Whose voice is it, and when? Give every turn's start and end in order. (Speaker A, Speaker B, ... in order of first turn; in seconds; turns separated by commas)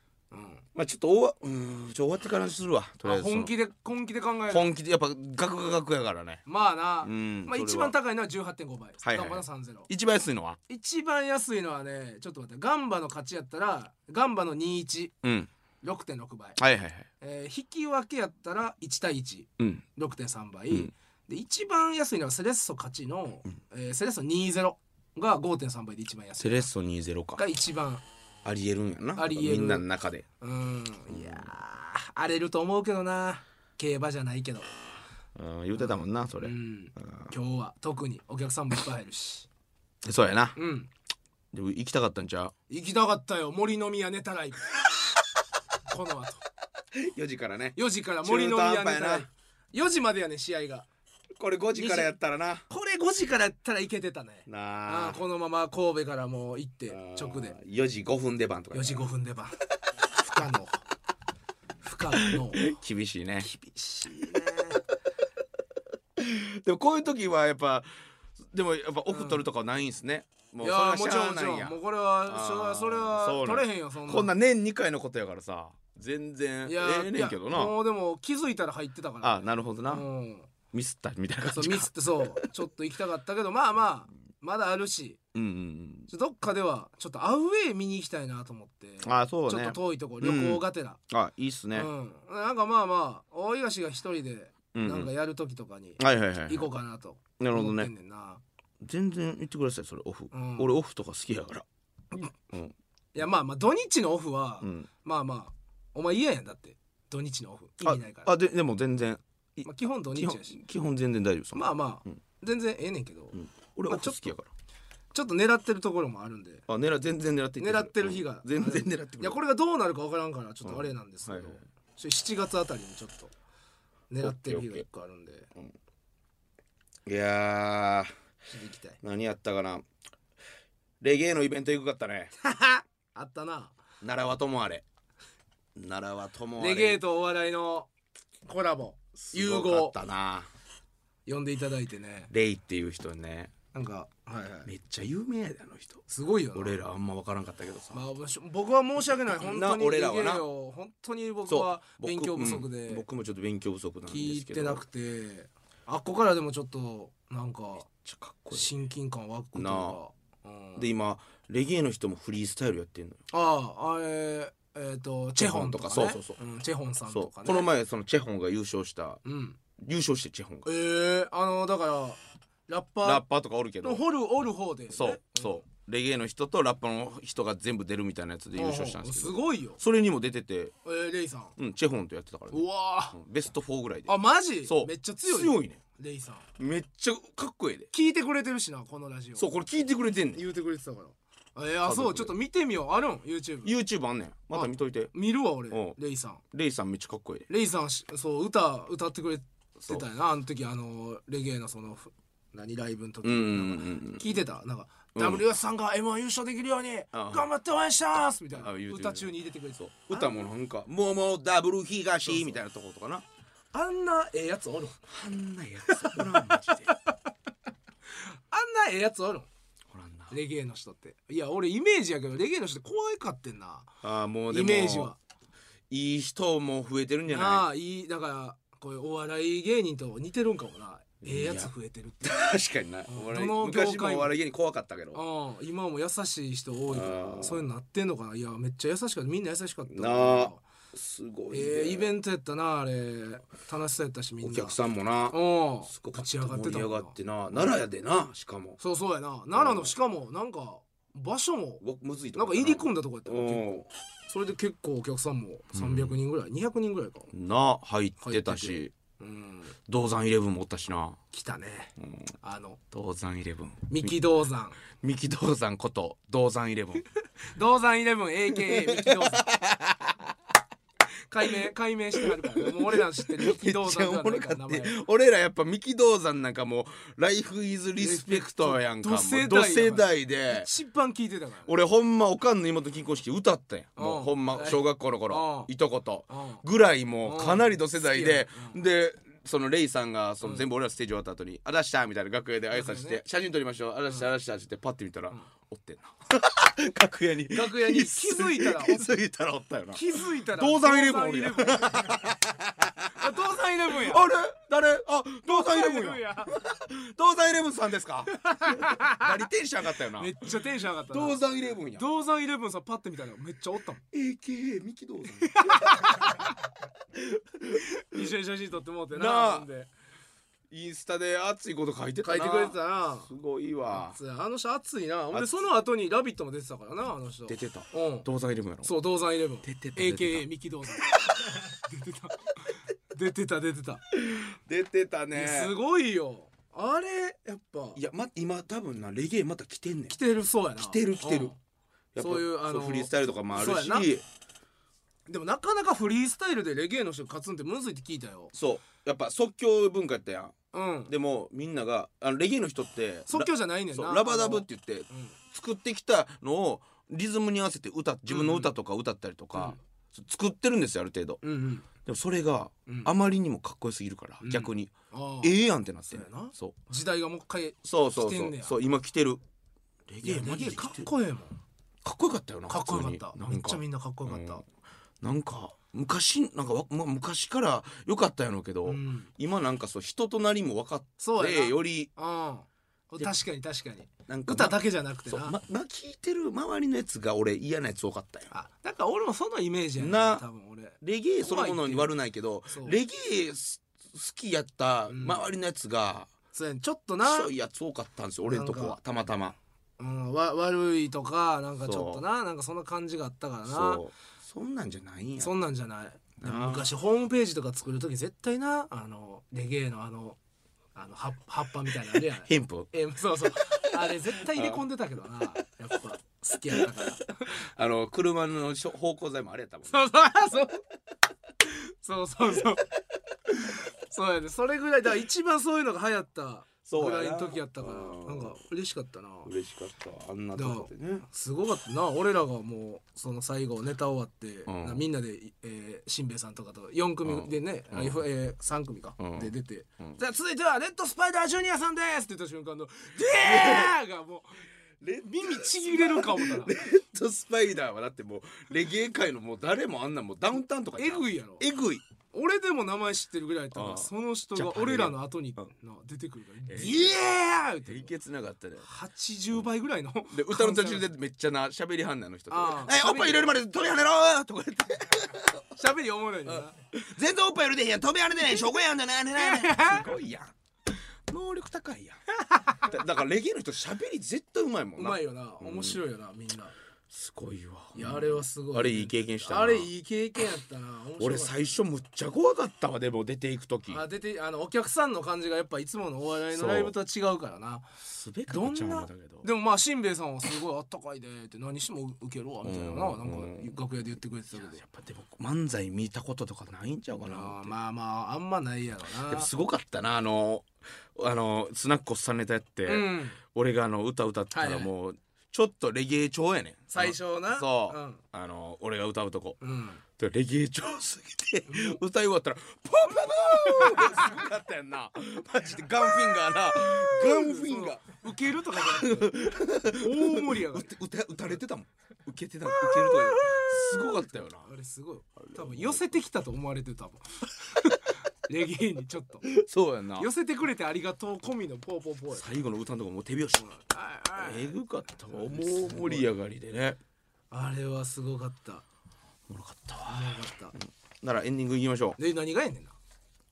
Speaker A: 0.3-0.6, Speaker B: 0.7-3.5, Speaker A: 3.0-4.7, Speaker B: 4.5-6.4, Speaker A: 6.5-9.9, Speaker B: 7.0-8.0, Speaker B: 9.0-10.6, Speaker A: 10.7-15.1, Speaker B: 15.2-15.5, Speaker A: 15.8-16.6, Speaker B: 16.6-17.1, Speaker A: 17.2-26.7, Speaker B: 19.6-19.8, Speaker B: 26.4-27.4, Speaker A: 27.4-28.0, Speaker B: 28.4-30.2, Speaker A: 29.1-29.9, Speaker A: 30.4-34.7, Speaker B: 31.1-31.5, Speaker B: 35.3-37.3, Speaker A: 35.8-39.5, Speaker B: 40.0-40.6, Speaker A: 40.5-40.9, Speaker B: 41.5-42.5, Speaker A: 42.7-44.9, Speaker A: 45.9-46.4, Speaker B: 46.9-49.3, Speaker A: 47.8-50.9, Speaker B: 51.4-52.6, Speaker A: 51.8-52.1, Speaker A: 52.7-57.6, Speaker B: 54.5-55.2, Speaker B: 56.9-59.1, Speaker A: 58.7-59.6, Speaker A: 60.2-60.8, Speaker A: 61.8-62.7, Speaker B: 62.2-63.5, Speaker A: 63.4-64.8, Speaker B: 64.2-64.6, Speaker B: 66.2-77.8, Speaker A: 69.1-69.4, Speaker A: 70.6-74.3, Speaker A: 76.6-80.5, Speaker B: 79.2-80.0, Speaker B: 80.7-82.5, Speaker A: 81.5-85.2, Speaker B: 85.3-86.1, Speaker A: 86.1-91.0, Speaker B: 89.0-91.9, Speaker A: 91.7-98.4, Speaker B: 94.7-95.1, Speaker B: 96.0-96.7, Speaker B: 97.4-97.9, Speaker B: 98.8-102.7, Speaker A: 100.3-100.7, Speaker A: 103.1-108.3, Speaker B: 104.6-104.9, Speaker B: 107.8-112.1, Speaker A: 109.6-110.6, Speaker A: 111.5-113.4, Speaker B: 113.3-114.5, Speaker A: 113.9-114.3, Speaker A: 115.1-116.7, Speaker B: 116.7-119.4, Speaker A: 117.6-123.3, Speaker B: 120.6-121.6, Speaker A: 124.1-125.5, Speaker B: 124.2-124.8, Speaker B: 127.0-128.1, Speaker A: 128.5-129.0, Speaker B: 129.0-129.8, Speaker B: 131.0-132.3, Speaker A: 132.4-133.7, Speaker B: 134.0-134.8, Speaker B: 135.8-137.0, Speaker A: 136.6-137.9, Speaker A: 138.4-139.9, Speaker B: 139.3-140.5, Speaker A: 141.2-142.3, Speaker B: 142.3-143.5, Speaker A: 143.7-144.7, Speaker B: 144.7-148.0, Speaker A: 146.1-146.8, Speaker A: 147.9-153.0, Speaker B: 149.3-150.4, Speaker B: 151.5-154.8, Speaker A: 154.1-157.9, Speaker B: 157.9-158.7, Speaker A: 158.5-160.9, Speaker B: 159.5-160.0, Speaker B: 160.8-163.2, Speaker A: 163.3-167.7, Speaker B: 165.4-166.4, Speaker B: 167.1-169.2, Speaker A: 169.2-169.6, Speaker B: 169.8-170.7, Speaker A: 170.6-173.2, Speaker B: 173.0-174.0, Speaker A: 173.8-175.6, Speaker B: 174.9-180.7, Speaker A: 178.6-179.8, Speaker A: 180.8-181.6, Speaker B: 181.6-185.8, Speaker A: 182.5-183.2, Speaker A: 184.1-186.4, Speaker B: 186.6-187.9, Speaker A: 187.9-189.5, Speaker B: 189.4-190.4, Speaker A: 190.3-193.7, Speaker B: 191.8-192.3, Speaker B: 193.6-195.1, Speaker A: 194.5-196.4, Speaker B: 195.7-196.0, Speaker B: 196.5-197.5, Speaker A: 197.5-210.4, Speaker B: 199.8-200.0, Speaker B: 203.2-204.2, Speaker B: 205.1-205.4, Speaker B: 207.1-207.5, Speaker B: 208.5-213.2, Speaker A: 212.2-212.6, Speaker A: 213.7-215.0, Speaker B: 215.1-216.9, Speaker A: 215.9-217.1, Speaker A: 218.2-219.5, Speaker B: 219.9-220.4, Speaker A: 220.3-223.9, Speaker B: 224.0-225.1, Speaker A: 224.5-225.2, Speaker B: 225.9-227.7, Speaker A: 227.3-232.4, Speaker B: 231.2-235.2, Speaker A: 233.1-234.3, Speaker A: 235.1-240.6, Speaker B: 236.9-237.7, Speaker B: 239.9-242.1, Speaker A: 241.5-244.8, Speaker B: 244.4-248.8, Speaker A: 245.3-247.1, Speaker A: 248.8-251.8, Speaker B: 249.5-249.9, Speaker B: 251.8-253.9, Speaker A: 252.3-253.7, Speaker A: 254.3-257.3, Speaker B: 255.7-256.2, Speaker B: 257.3-258.9, Speaker A: 258.2-259.8, Speaker B: 259.9-261.2, Speaker A: 261.3-262.8, Speaker B: 262.0-262.3, Speaker B: 262.9-264.2, Speaker A: 263.9-264.8, Speaker B: 264.9-267.0, Speaker A: 267.5-269.5, Speaker B: 268.5-270.3, Speaker A: 271.3-275.0, Speaker B: 272.2-280.7, Speaker A: 278.0-281.7, Speaker B: 281.6-310.4, Speaker A: 283.9-285.7, Speaker A: 286.3-286.6, Speaker A: 287.2-288.8, Speaker A: 292.7-293.2, Speaker A: 297.5-299.1, Speaker A: 299.9-302.2, Speaker A: 303.1-304.3, Speaker A: 305.4-306.6, Speaker A: 308.3-309.4, Speaker A: 310.1-314.0, Speaker B: 311.1-312.1, Speaker B: 314.1-316.5, Speaker A: 315.4-316.6, Speaker B: 317.1-318.2, Speaker A: 317.8-319.9, Speaker B: 319.1-319.7, Speaker B: 320.7-324.2, Speaker A: 322.2-323.3, Speaker A: 323.9-328.3, Speaker B: 325.3-325.6, Speaker B: 327.5-328.9, Speaker A: 328.8-334.0, Speaker B: 329.6-330.5, Speaker B: 331.0-331.5, Speaker B: 334.1-335.7, Speaker A: 335.3-338.0, Speaker B: 337.9-340.2, Speaker A: 340.1-341.6, Speaker B: 340.8-341.5, Speaker B: 342.1-344.2, Speaker A: 342.2-344.1, Speaker A: 345.3-348.5, Speaker B: 348.5-361.4, Speaker A: 350.7-351.1, Speaker A: 353.3-355.4, Speaker A: 358.3-358.7, Speaker A: 361.4-361.9, Speaker B: 362.0-366.8, Speaker A: 362.9-363.1, Speaker A: 364.4-365.5, Speaker A: 366.1-368.8, Speaker B: 367.8-369.4, Speaker B: 370.1-371.1, Speaker A: 370.2-371.6, Speaker B: 372.0-374.6, Speaker A: 372.7-374.6, Speaker B: 375.2-382.1, Speaker A: 378.8-379.3, Speaker A: 381.2-385.6, Speaker B: 384.3-388.5, Speaker A: 388.5-392.1, Speaker B: 390.0-390.4, Speaker B: 391.0-396.3, Speaker A: 392.7-393.0, Speaker A: 395.1-395.5, Speaker A: 396.5-397.5, Speaker B: 397.2-399.6, Speaker A: 398.5-399.0, Speaker A: 400.0-404.0, Speaker B: 401.8-402.2, Speaker B: 403.6-405.5, Speaker A: 405.4-410.4, Speaker B: 406.4-406.9, Speaker A: 410.9-417.6, Speaker B: 412.1-412.9, Speaker B: 413.6-414.8, Speaker B: 417.6-420.1, Speaker A: 419.9-420.8, Speaker A: 421.6-422.9, Speaker A: 423.5-429.5, Speaker B: 426.9-428.6, Speaker B: 429.4-431.2, Speaker A: 430.6-444.6, Speaker B: 434.6-435.0, Speaker B: 437.2-438.2, Speaker B: 439.2-440.2, Speaker B: 443.1-444.0, Speaker B: 445.0-452.0, Speaker A: 445.2-446.7, Speaker A: 450.9-451.7, Speaker A: 452.3-458.1, Speaker B: 453.7-455.6, Speaker B: 456.7-458.9, Speaker A: 458.8-461.1, Speaker B: 460.3-465.7, Speaker A: 462.5-463.5, Speaker A: 465.7-466.7, Speaker B: 466.4-470.5, Speaker A: 469.4-470.1, Speaker B: 471.3-472.2, Speaker A: 472.4-472.9, Speaker B: 472.8-476.0, Speaker A: 474.9-476.7, Speaker B: 477.1-479.9, Speaker A: 477.9-481.6, Speaker B: 481.2-484.0, Speaker A: 483.9-487.9, Speaker B: 486.5-486.9, Speaker B: 488.0-489.4, Speaker A: 488.5-494.8, Speaker B: 492.6-493.7, Speaker B: 494.6-497.7, Speaker A: 497.2-499.5, Speaker B: 499.2-509.6, Speaker A: 502.9-503.4, Speaker A: 504.5-504.9, Speaker A: 506.9-508.2, Speaker A: 509.6-510.0, Speaker B: 510.2-518.1, Speaker A: 511.7-512.0, Speaker A: 513.4-514.4, Speaker A: 516.8-520.9, Speaker B: 518.7-524.7, Speaker A: 522.7-529.5, Speaker B: 525.4-526.1, Speaker B: 529.4-530.3, Speaker A: 530.2-532.6, Speaker B: 532.3-533.6, Speaker A: 533.6-536.3, Speaker B: 534.4-537.0, Speaker A: 537.5-538.8, Speaker B: 539.5-542.2, Speaker A: 540.1-540.8, Speaker A: 542.2-543.0